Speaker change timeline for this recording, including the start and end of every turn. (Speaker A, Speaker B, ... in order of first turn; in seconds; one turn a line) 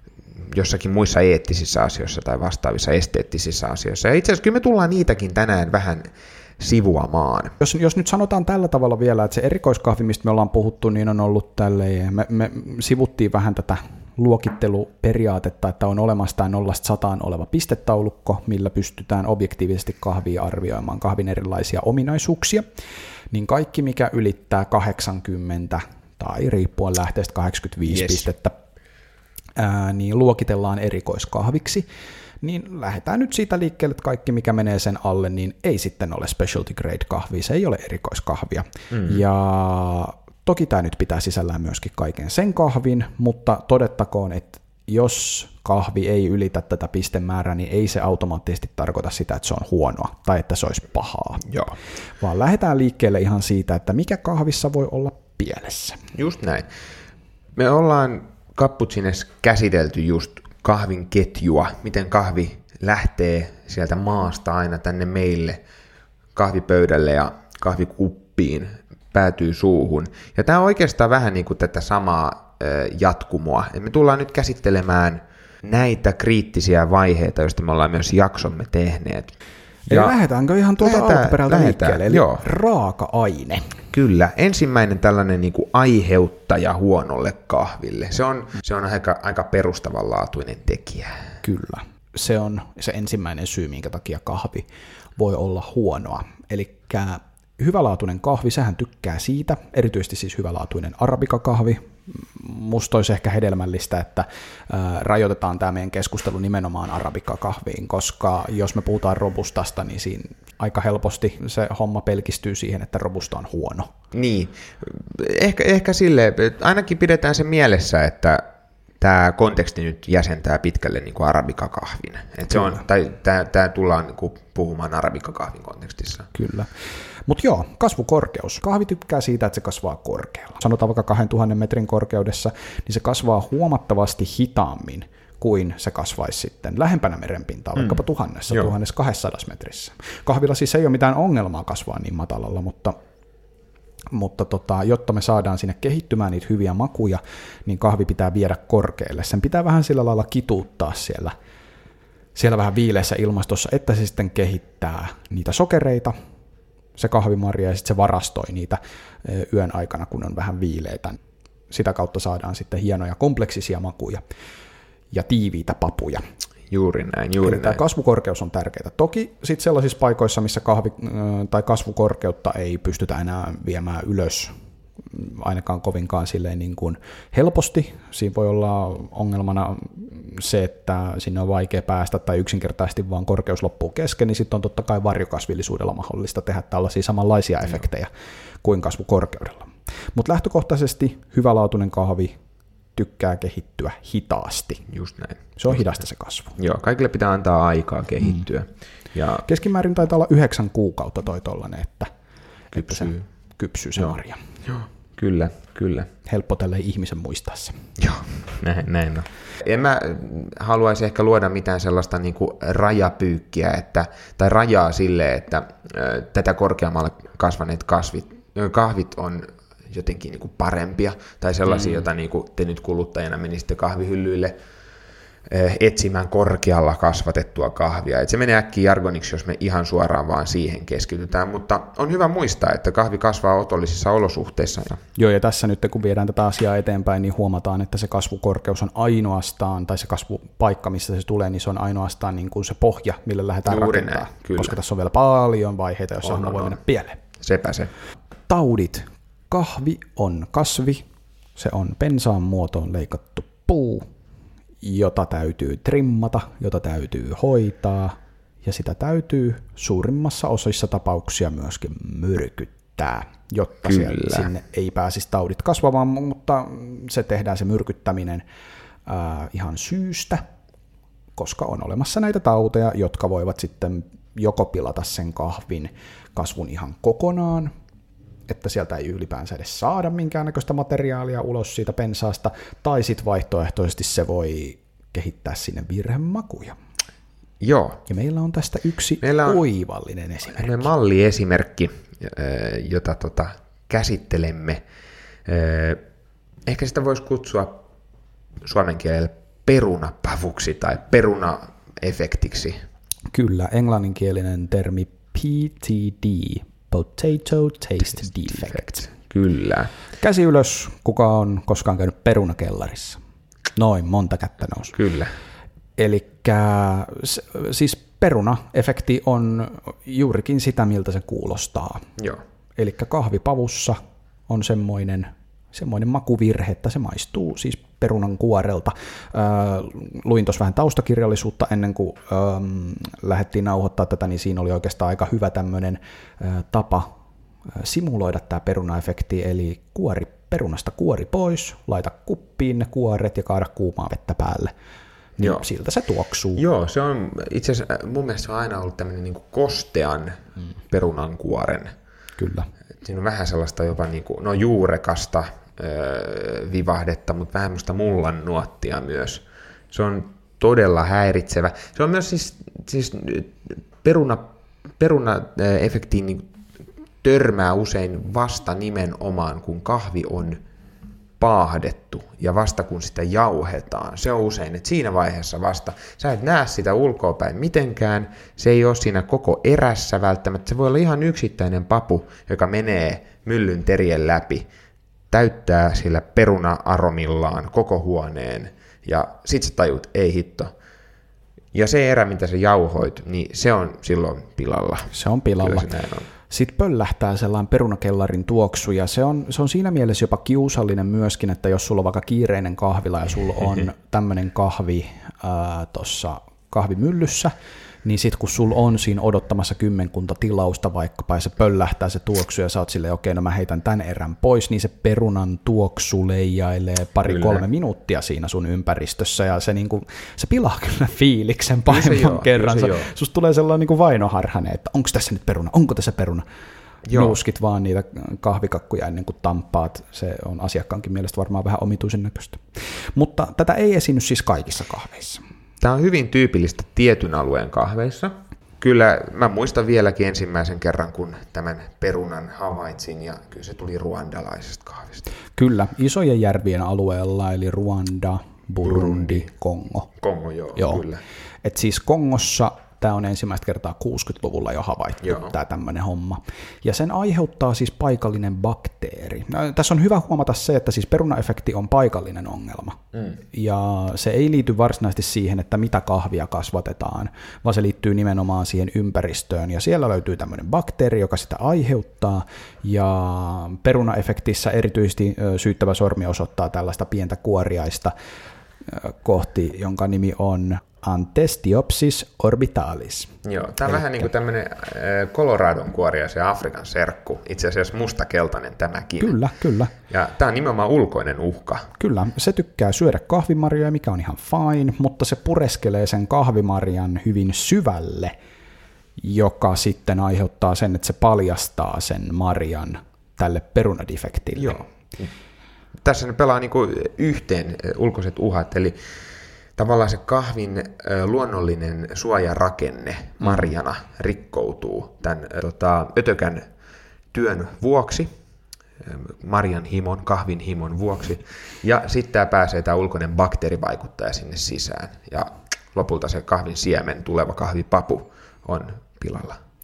Speaker A: 0.5-7.5
Speaker B: 7.6-22.6
Speaker B: 23.3-28.6
Speaker A: 27.9-28.2
Speaker B: 29.6-31.8
Speaker B: 32.4-51.5
Speaker A: 38.9-39.2
Speaker A: 51.5-51.7
Speaker B: 52.2-56.0
Speaker A: 56.1-56.7
Speaker A: 57.5-65.6
Speaker A: 66.3-79.4
Speaker B: 79.9-83.8
Speaker A: 79.9-80.1
Speaker A: 80.8-82.5
Speaker A: 83.9-91.3
Speaker B: 91.4-94.7
Speaker B: 95.2-113.9
Speaker A: 114.1-118.5
Speaker A: 119.0-126.3
Speaker B: 126.3-126.7
Speaker B: 127.2-143.0
Speaker A: 137.8-138.7
Speaker B: 144.1-151.3
Speaker B: 152.3-156.1
Speaker B: 156.9-161.2
Speaker B: 161.7-164.2
Speaker B: 165.1-166.2
Speaker A: 166.7-167.8
Speaker B: 167.4-174.5
Speaker B: 175.1-188.1
Speaker B: 188.6-192.4
Speaker B: 192.9-194.9
Speaker A: 194.9-195.8
Speaker B: 195.6-196.6
Speaker A: 196.6-199.4
Speaker B: 199.4-202.1
Speaker A: 202.7-203.2
Speaker B: 202.7-204.4
Speaker A: 204.7-206.1
Speaker B: 206.2-207.8
Speaker A: 208.0-224.5
Speaker A: 225.5-235.0
Speaker B: 235.2-247.2
Speaker A: 243.7-244.8
Speaker A: 246.2-246.8
Speaker A: 247.4-247.9
Speaker B: 248.5-251.0
Speaker B: 251.6-254.1
Speaker B: 254.8-268.4
Speaker A: 263.9-264.4
Speaker B: 269.1-270.4
Speaker B: 271.4-277.7
Speaker B: 278.5-286.8
Speaker A: 287.6-288.0
Speaker B: 288.1-290.9
Speaker A: 289.2-289.6
Speaker A: 290.5-294.8
Speaker A: 295.4-296.0
Speaker A: 296.6-297.8
Speaker A: 298.6-302.8
Speaker B: 303.3-309.1
Speaker A: 308.6-309.9
Speaker B: 310.2-313.2
Speaker B: 313.8-314.9
Speaker A: 314.9-315.3
Speaker B: 316.0-322.1
Speaker B: 322.8-324.0
Speaker B: 324.5-337.1
Speaker B: 337.8-344.7
Speaker B: 345.4-346.6
Speaker A: 345.4-345.6
Speaker A: 346.6-351.9
Speaker B: 352.4-352.7
Speaker A: 353.0-366.5
Speaker A: 367.2-370.6
Speaker A: 371.4-384.7
Speaker A: 385.3-390.7
Speaker A: 391.7-396.3
Speaker B: 395.1-395.9
Speaker B: 396.5-407.5
Speaker B: 408.0-426.4
Speaker A: 417.3-417.6
Speaker A: 421.9-423.1
Speaker A: 427.1-427.4
Speaker B: 427.1-435.4
Speaker A: 435.8-445.2
Speaker B: 445.5-450.1
Speaker A: 448.8-449.4
Speaker A: 450.2-451.2
Speaker B: 450.7-451.0
Speaker B: 451.6-478.1
Speaker A: 455.2-455.5
Speaker B: 478.9-484.3
Speaker A: 483.4-489.4
Speaker B: 489.2-489.9
Speaker A: 490.1-491.9
Speaker B: 492.0-498.3
Speaker B: 499.2-504.8
Speaker A: 504.5-505.3
Speaker A: 506.0-509.0
Speaker A: 509.8-516.7
Speaker B: 513.4-513.7
Speaker A: 517.3-518.3
Speaker A: 519.0-529.6